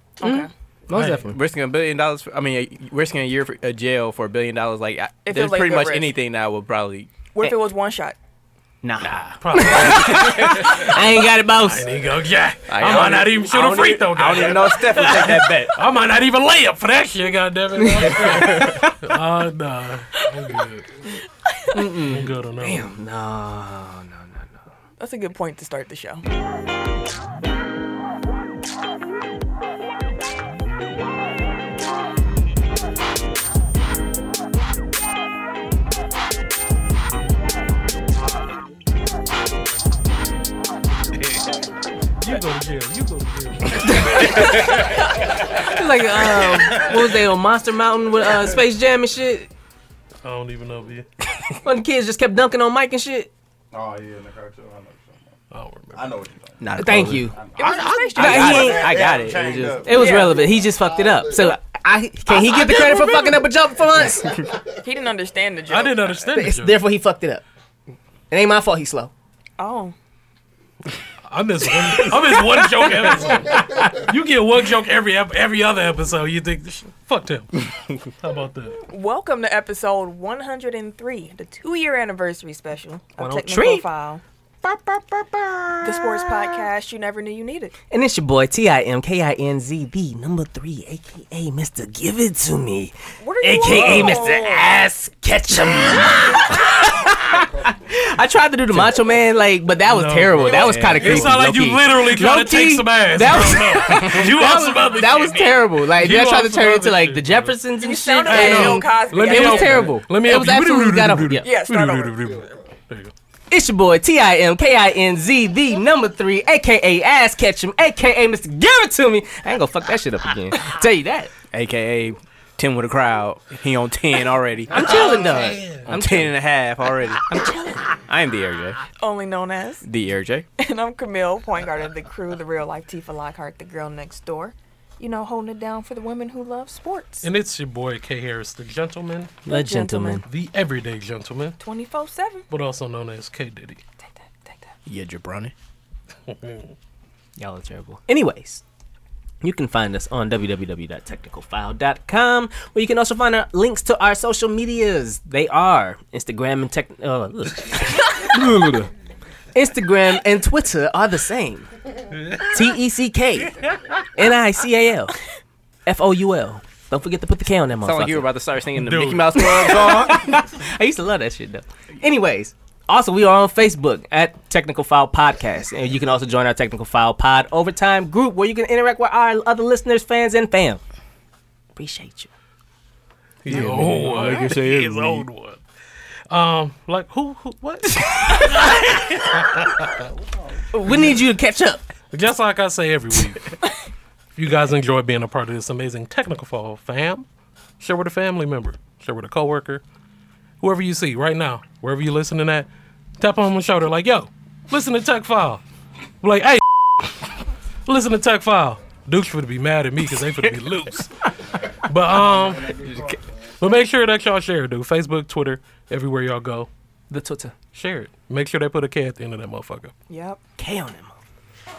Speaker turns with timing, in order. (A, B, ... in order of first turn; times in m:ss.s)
0:00.2-0:00.5 A
0:00.2-0:01.4 B
0:00.9-0:01.3 C
0:01.3-0:07.1 D
0:05.2-0:06.1 A
0:07.4-0:08.2 A
0:08.8-0:09.7 D
0:08.8-0:11.9 B
0:09.4-0:11.0 C
0:11.5-0:20.9 C
0:12.7-0:15.7 D
0:17.8-0:19.0 B
0:21.4-0:21.8 A
0:21.7-0:24.7 B
0:22.1-0:22.9 C
0:25.0-0:26.2 A
0:42.2-0:45.7 C
0:43.9-0:44.8 B
0:45.6-0:49.5 B
0:46.2-0:47.0 C
0:50.2-0:51.1 C
0:51.6-0:53.3 B
0:53.7-0:55.1 E
0:55.5-0:56.2 C
0:55.9-0:56.6 E
0:56.6-1:00.0 D
0:56.8-0:57.4 B
0:57.4-1:01.6 E
0:57.6-0:58.9 A
0:58.2-0:59.0 B
0:59.8-1:04.4 B
0:59.9-1:00.5 A
1:04.0-1:04.6 E
1:04.8-1:06.2 A
1:05.7-1:06.8 C
1:06.3-1:07.4 B
1:08.3-1:09.1 B
1:09.6-1:09.9 A
1:11.3-1:18.8 C
1:12.0-1:14.0 B
1:18.9-1:24.2 A
1:23.2-1:23.8 B
1:24.6-1:26.6 B
1:25.8-1:27.7 A
1:27.9-1:51.5 B
1:33.2-1:34.7 A
1:37.3-1:38.0 E
1:39.9-1:47.6 C
1:40.6-1:41.4 D
1:47.8-1:50.0 A
1:48.2-1:53.1 C
1:51.4-1:52.4 A
1:52.2-1:52.6 E
1:53.5-2:01.3 B
2:01.5-2:08.8 D
2:04.7-2:06.3 B
2:04.9-2:05.9 C
2:07.3-2:08.0 B
2:09.0-2:09.8 A
2:09.8-2:10.5 D
2:10.6-2:17.3 A
2:17.2-2:19.4 C
2:19.5-2:20.2 A
2:19.5-2:20.2 B
2:20.2-2:21.6 C
2:21.6-2:22.5 A
2:22.5-2:23.8 C
2:24.0-2:24.7 A
2:24.9-2:25.5 D
2:26.3-2:26.7 C
2:27.4-2:28.6 B
2:29.4-2:38.9 B
2:39.5-2:41.7 B
2:42.2-2:42.6 C
2:42.5-2:45.2 B
2:45.9-2:48.3 B
2:47.8-2:50.3 D
2:48.7-2:49.7 C
2:49.4-3:00.8 B
3:01.8-3:02.3 B
3:03.4-3:05.6 C
3:03.5-3:05.3 D
3:06.3-3:10.1 C
3:07.9-3:08.6 B
3:10.7-3:11.8 B
3:12.1-3:13.6 C
3:14.4-3:17.3 C
3:17.8-3:19.8 C
3:20.6-3:22.7 C
3:23.2-3:25.6 C
3:26.2-3:31.3 C
3:31.8-3:33.1 C
3:32.5-3:33.2 E
3:33.6-3:36.7 C
3:37.1-3:37.6 B
3:37.7-3:39.9 C
3:40.1-3:40.4 A
3:40.6-3:41.2 B